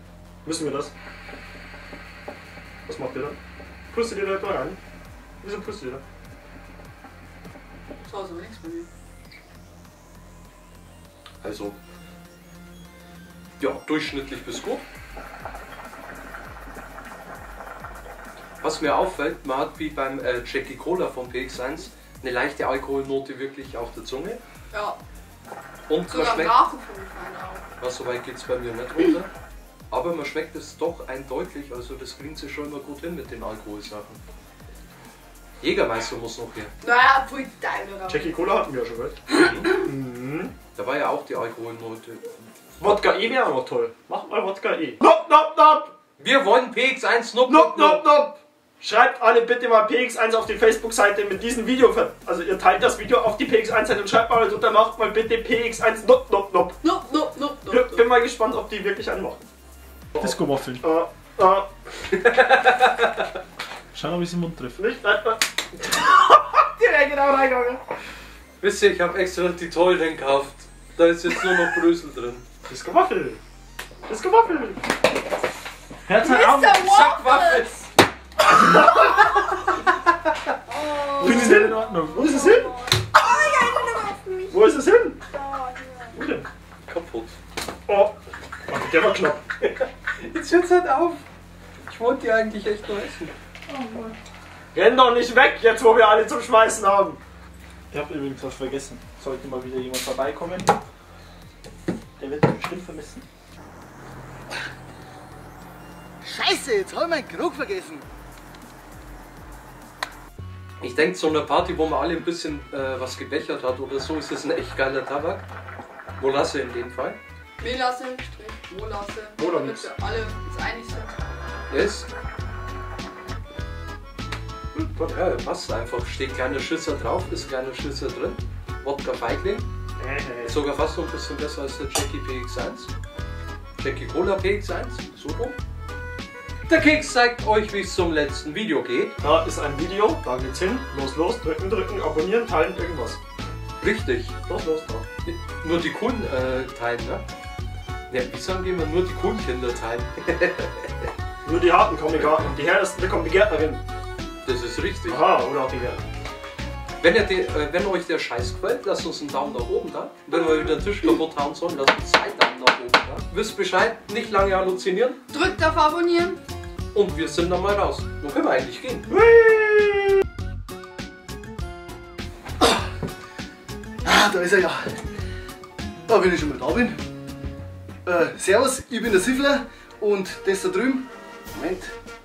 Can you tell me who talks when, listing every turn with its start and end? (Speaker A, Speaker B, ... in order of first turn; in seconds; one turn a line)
Speaker A: 0.4-0.9
Speaker A: 2.9-3.4
Speaker A: 3.9-4.8
Speaker A: 5.4-6.0
Speaker B: 8.1-8.9
Speaker C: 11.4-11.8
Speaker C: 13.6-14.8
Speaker C: 18.6-24.4
Speaker B: 24.7-25.0
Speaker C: 25.9-26.6
Speaker B: 26.1-27.6
Speaker C: 27.8-29.3
Speaker C: 29.9-34.2
Speaker C: 35.6-36.7
Speaker B: 36.8-38.3
Speaker A: 38.1-40.5
Speaker C: 39.3-39.7
Speaker C: 40.8-42.4
Speaker A: 42.8-45.9
Speaker C: 46.2-48.1
Speaker A: 47.5-56.8
Speaker B: 56.8-58.1
Speaker A: 57.7-59.4
Speaker A: 60.1-61.7
Speaker D: 60.2-60.9
Speaker C: 62.1-63.3
Speaker D: 63.9-64.8
Speaker A: 64.8-67.8
Speaker C: 68.6-72.4
Speaker A: 72.7-73.4
Speaker A: 74.1-74.8
Speaker D: 76.1-77.1
Speaker B: 76.2-77.9
Speaker C: 77.0-77.7
Speaker A: 78.5-79.2
Speaker B: 80.7-84.6
Speaker D: 81.2-82.3
Speaker A: 81.2-82.7
Speaker A: 84.5-85.2
Speaker B: 85.3-86.2
Speaker A: 86.1-86.5
Speaker C: 86.9-87.3
Speaker A: 87.9-88.1
Speaker A: 88.7-89.4
Speaker C: 89.6-91.2
Speaker C: 91.9-93.3
Speaker D: 93.7-94.1
Speaker A: 94.7-97.2
Speaker D: 97.9-100.8
Speaker D: 102.2-103.2
Speaker E: 106.2-108.1
Speaker C: 110.8-115.5
Speaker C: 116.2-117.2
Speaker B: 117.6-121.2
Speaker A: 119.4-119.8
Speaker C: 121.7-122.1
Speaker C: 125.0-129.7
Speaker A: 130.0-130.6
Speaker C: 130.4-132.9
Speaker C: 133.8-135.6
Speaker C: 136.7-139.2
Speaker A: 139.2-143.2
Speaker C: 143.8-144.4
Speaker A: 144.5-145.1
Speaker C: 145.3-147.2
Speaker C: 148.1-151.1
Speaker A: 151.4-153.8
Speaker C: 154.4-155.3
Speaker A: 155.1-156.0
Speaker C: 157.0-165.2
Speaker B: 165.3-166.4
Speaker C: 166.9-169.1
Speaker A: 169.1-170.2
Speaker E: 172.6-172.9
Speaker E: 174.0-175.0
Speaker E: 176.1-177.0
Speaker E: 178.1-181.9